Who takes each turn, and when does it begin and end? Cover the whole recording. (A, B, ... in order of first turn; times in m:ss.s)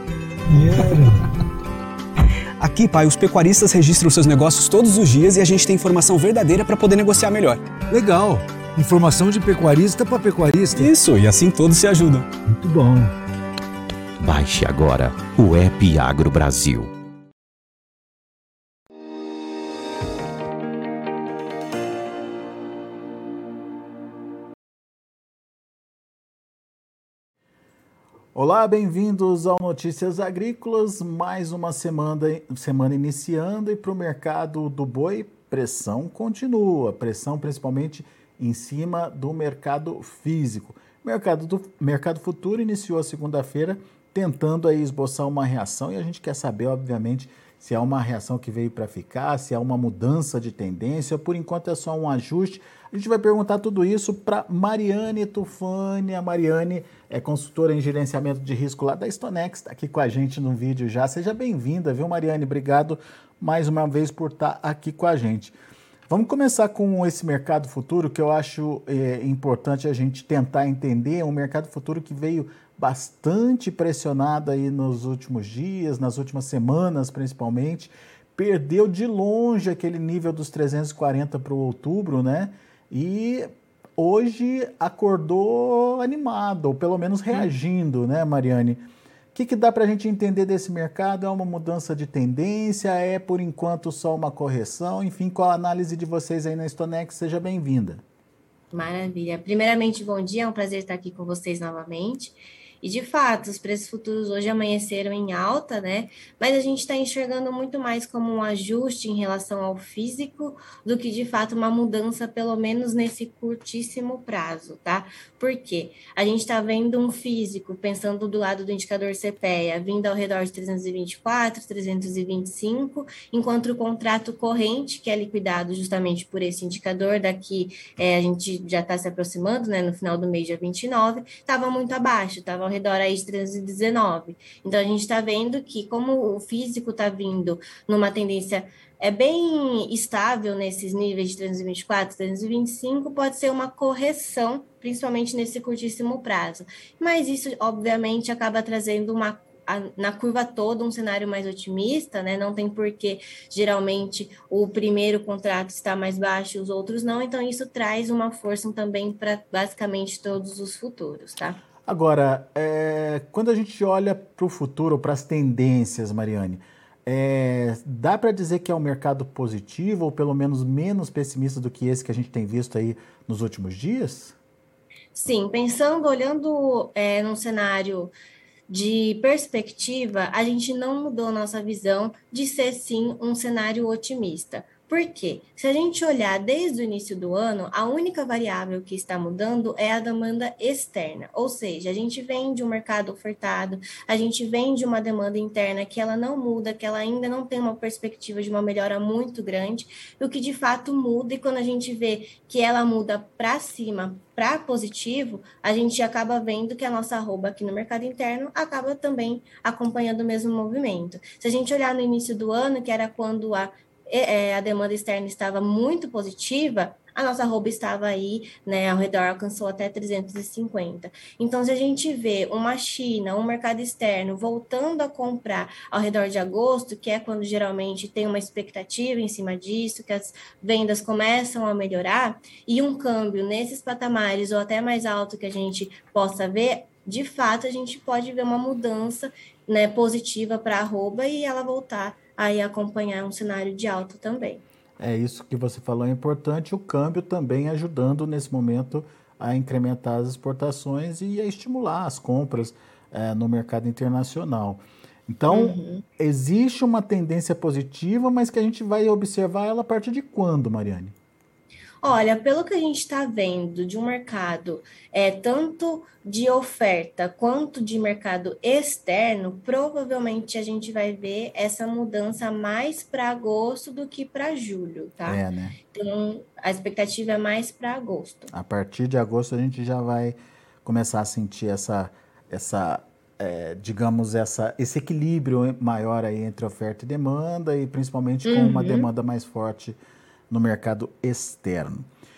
0:00.5-0:01.1 A
0:02.6-0:07.6 B
0:07.9-0:10.9 A
0:10.8-0:12.3 B
0:12.5-0:13.1 A
0:14.2-0:16.9 C
0:28.4-1:05.6 D
1:06.1-1:38.0 D
1:38.7-2:41.6 E
2:41.9-2:54.4 D
2:55.2-2:58.1 E
2:58.7-4:04.6 E
4:05.0-4:21.2 D
4:15.5-4:16.1 E
4:22.0-4:38.5 E
4:35.3-4:35.8 D
4:38.5-4:50.0 D
4:48.4-4:49.1 E
4:50.5-4:52.1 D